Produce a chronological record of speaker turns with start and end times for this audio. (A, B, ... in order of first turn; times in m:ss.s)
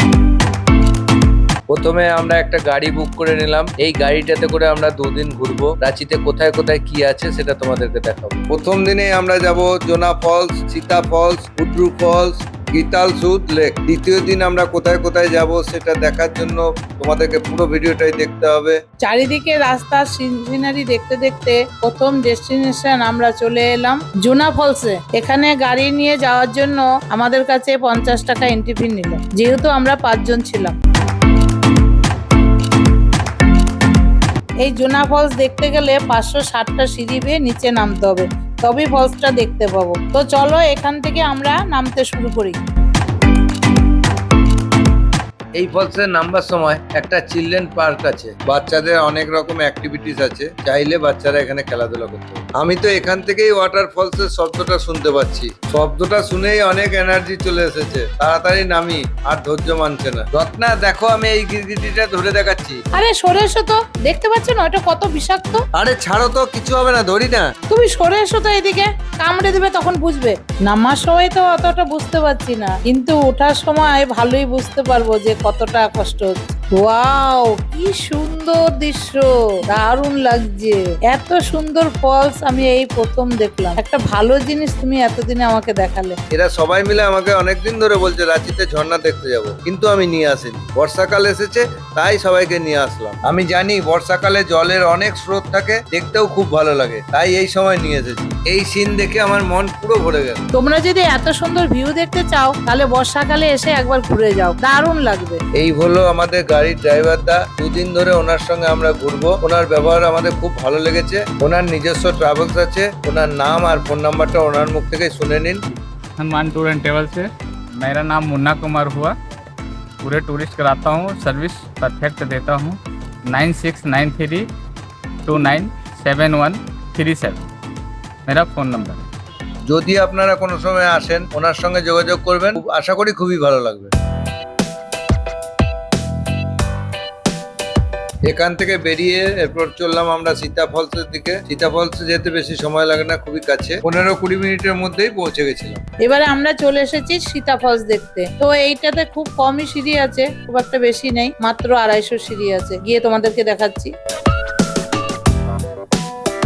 0:01.7-0:18.8 A
0:19.0-0:30.8 B
0:34.6-0:42.6 B
0:45.6-1:02.8 A
1:02.9-1:05.6 B
1:05.7-1:07.5 A
1:07.7-1:26.2 B
1:26.3-1:40.4 A
1:40.5-1:45.4 B
1:45.6-1:55.6 A
1:56.2-1:59.1 C
2:00.0-2:04.5 C
2:05.2-2:07.4 C
2:08.3-2:09.0 C
2:09.7-2:13.9 A
2:18.3-2:25.8 A
2:26.0-2:33.9 B